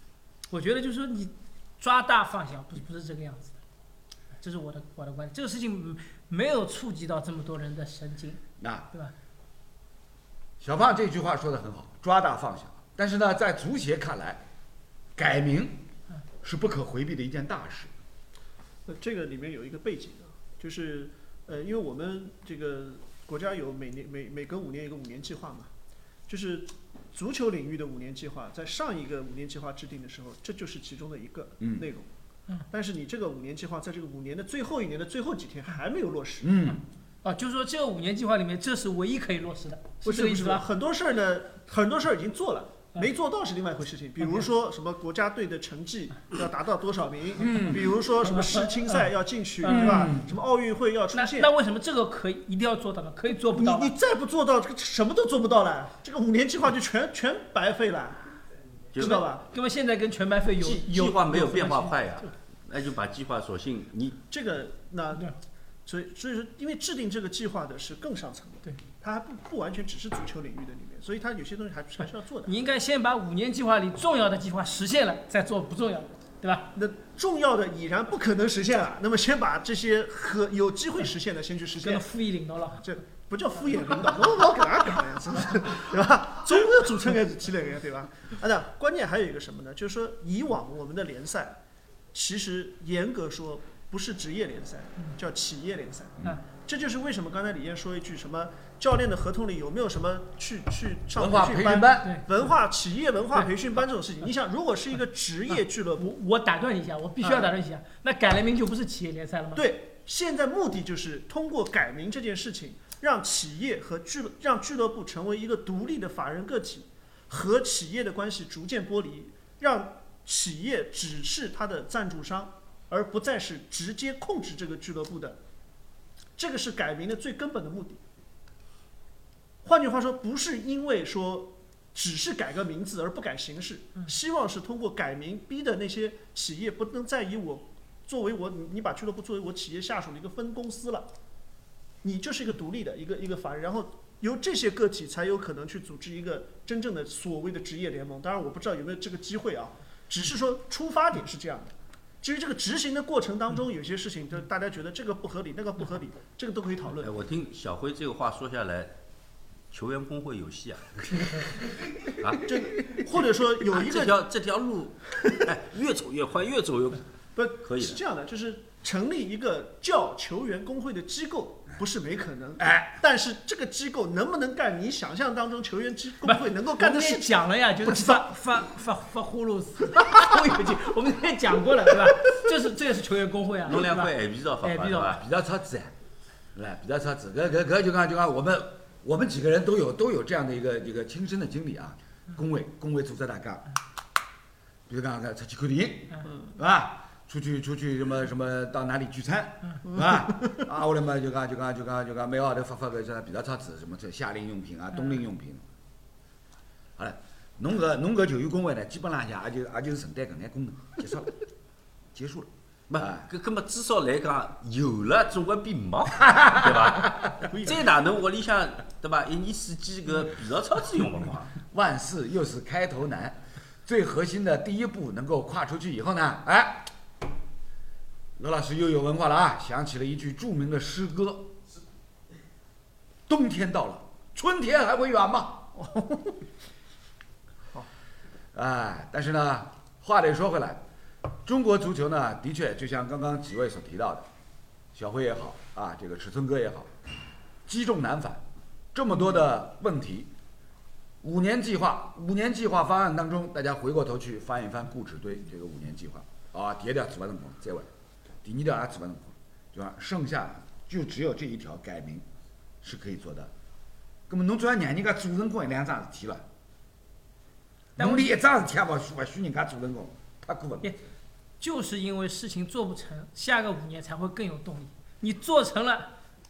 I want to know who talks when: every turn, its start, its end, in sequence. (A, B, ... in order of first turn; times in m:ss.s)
0:00.5-0:03.6 A
0:04.4-0:08.4 A
0:08.6-0:08.9 B
0:10.6-0:14.4 B
0:15.2-0:15.8 B
0:16.4-0:17.9 B
0:18.8-0:25.7 C
0:26.3-0:32.1 C
0:31.6-0:31.8 B
0:32.7-0:36.6 C
0:36.4-0:36.8 B
0:37.2-0:40.6 A
0:40.0-0:51.5 C
0:47.4-0:47.9 B
0:47.4-0:47.7 A
0:48.2-0:49.1 A
0:49.6-0:50.2 A
0:49.6-0:50.3 B
0:51.1-0:53.9 A
0:53.5-0:58.3 C
0:58.9-0:59.2 D
0:59.0-0:59.4 C
0:59.0-1:02.3 A
1:00.6-1:04.2 D
1:04.3-1:05.3 C
1:05.8-1:12.5 C
1:12.4-1:16.7 A
1:16.7-1:22.1 C
1:21.8-1:22.9 A
1:22.8-1:31.6 C
1:32.1-1:46.1 C
1:41.1-1:42.1 B
1:46.0-1:49.6 A
1:47.2-1:47.5 C
1:49.5-2:05.4 C
2:06.4-2:08.0 C
2:09.6-2:21.1 C
2:22.0-2:37.1 C
2:37.0-2:39.0 D
2:39.7-2:42.5 D
2:42.4-2:44.2 C
2:43.6-2:47.0 D
2:47.4-2:58.2 C
2:47.6-2:48.0 D
2:52.6-2:53.0 B
2:56.2-3:05.2 A
3:03.6-3:05.2 D
3:05.1-3:05.9 B
3:06.5-3:13.7 B
3:14.9-3:25.6 B
3:20.0-3:20.6 C
3:27.0-3:31.3 B
3:32.1-3:33.2 B
3:32.9-3:41.6 D
3:36.2-3:37.2 B
3:37.4-3:37.9 C
3:41.6-3:46.9 B
3:48.4-3:51.5 B
3:53.3-3:55.7 B
3:55.8-3:56.4 C
3:58.5-4:00.8 B
4:01.4-4:04.2 B
4:04.9-4:06.9 B
4:07.7-4:10.3 B
4:11.2-4:17.9 B
4:18.4-4:22.2 B
4:22.8-4:23.5 B
4:24.3-4:26.4 B
4:28.0-4:30.9 B
4:28.0-4:28.3 A
4:31.6-4:36.1 A